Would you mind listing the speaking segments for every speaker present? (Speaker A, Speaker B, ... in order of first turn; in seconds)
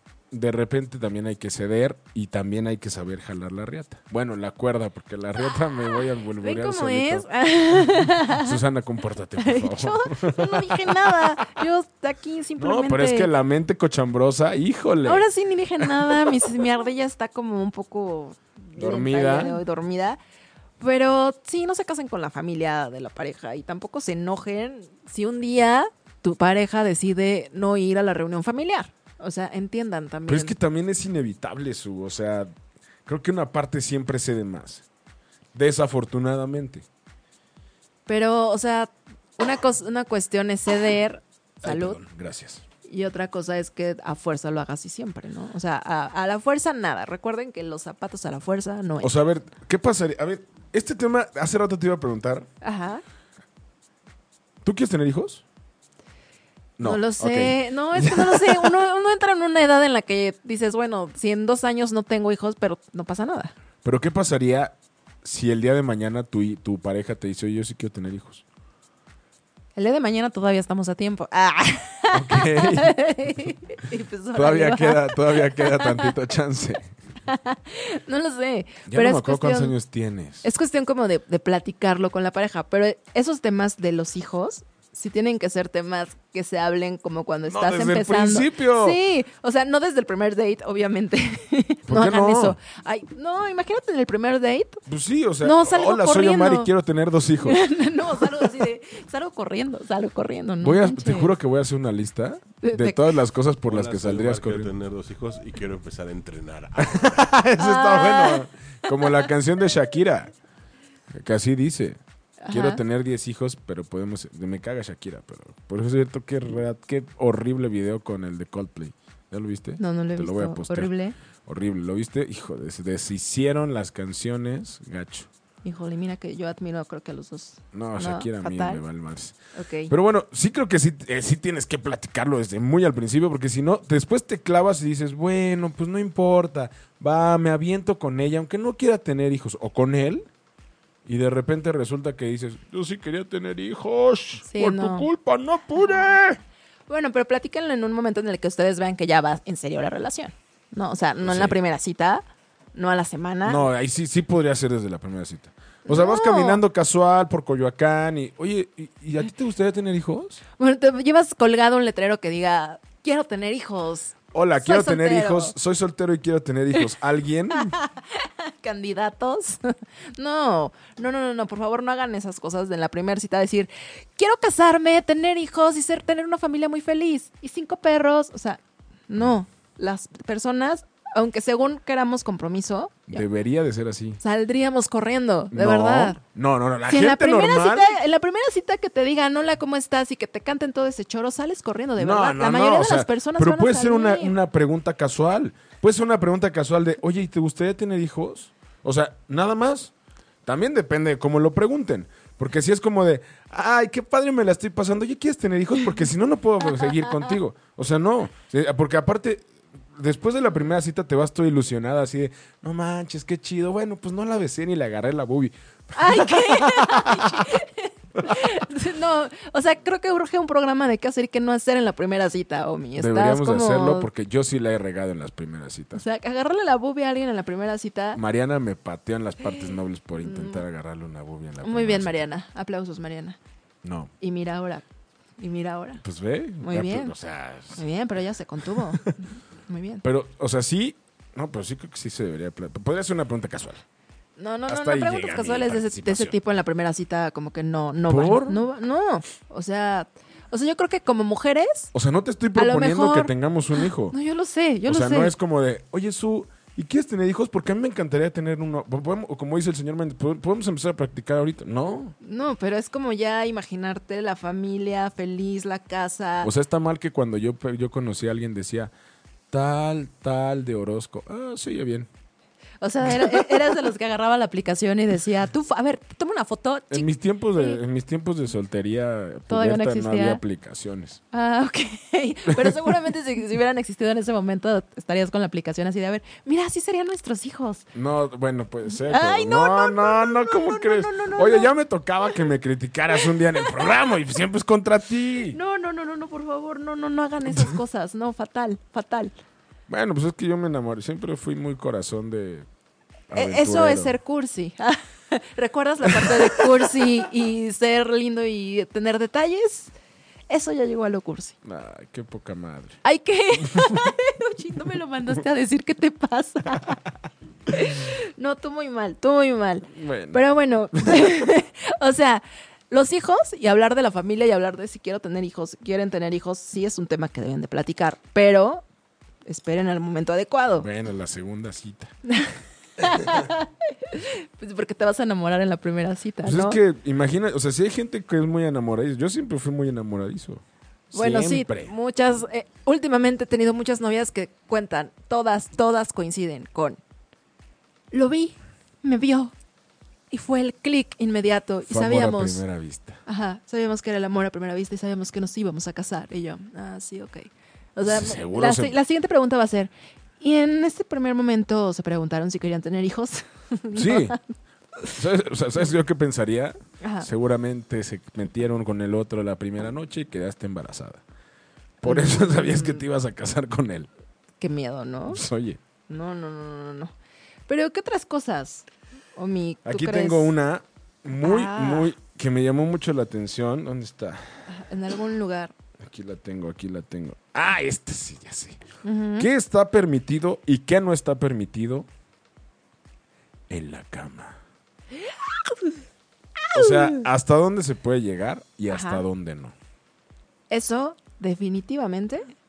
Speaker A: 0.3-7.2, 8.3-11.6, 12.6-15.3, 15.8-16.1, 18.8-19.6, 30.3-32.5, 33.1-34.8, 35.5-36.9, 41.6-42.6, 49.0-52.5, 54.6-55.4, 56.8-58.7, 63.8-68.4, 72.1-73.0, 74.3-76.9, 78.9-80.5, 87.5-89.0, 91.9-92.6, 94.9-97.6, 100.6-104.7, 106.8-110.3, 111.1-120.9, 121.5-125.3, 127.7-129.3, 129.9-140.3, 141.1-146.4, 151.2-151.6, 153.4-160.4, 164.3-167.8, 183.1-184.2, 185.5-187.9, 192.0-199.9, 200.5-217.6, 218.2-218.5, 223.0-226.0, 228.1-232.2, 233.8-234.1, 236.0-237.8, 240.0-243.8, 244.7-246.4, 248.1-248.6, 251.9-254.2, 254.9-262.1, 266.4-268.9, 269.5-272.1, 276.9-281.2, 287.9-295.6, 299.9-302.7, 303.3-304.2, 306.2-306.6, 311.6-313.0, 313.6-314.0, 319.9-320.4, 330.8-332.1, 336.4-341.9, 351.9-353.2, 358.1-358.9, 363.9-364.4, 365.1-371.2, 372.0-374.1, 375.3-375.8, 379.9-384.4, 386.0-388.8, 389.4-392.1, 393.7-394.6, 396.7-399.7
Speaker B: 5.6-8.6, 9.4-13.3, 15.1-20.2, 20.8-30.5, 38.1-42.0, 42.9-49.1, 52.6-53.0, 56.8-63.5, 69.8-76.2, 77.3-79.8, 80.4-94.8, 95.4-96.7, 97.4-101.3, 102.6-103.1, 107.6-109.2, 112.4-112.8, 119.8-121.2, 125.6-128.8, 129.6-129.9, 144.4-145.1, 146.9-152.2, 152.8-153.6, 155.9-156.6, 160.6-165.5, 167.5-183.2, 184.2-186.2, 186.9-194.3, 215.9-224.1, 225.9-228.2, 229.5-230.6, 231.6-233.4, 234.2-234.8, 235.4-236.0, 236.6-237.1, 237.7-240.1, 244.4-251.9, 252.6-255.3, 262.2-266.5, 272.8-277.8, 279.5-280.4, 281.3-287.9, 289.0-291.7, 293.6-293.8, 295.5-299.3, 303.3-309.9, 310.5-311.6, 313.0-317.0, 317.7-328.8, 329.5-330.9, 332.3-336.8, 341.1-347.0, 348.1-349.5, 350.3-352.6, 353.3-364.4, 367.0-367.3, 372.0-373.0, 374.6-375.4, 376.1-377.1, 377.7-380.5, 381.4-382.1, 384.7-385.7, 389.0-389.5, 396.6-397.2, 398.9-399.2, 400.7-402.5
Speaker C: 103.7-107.3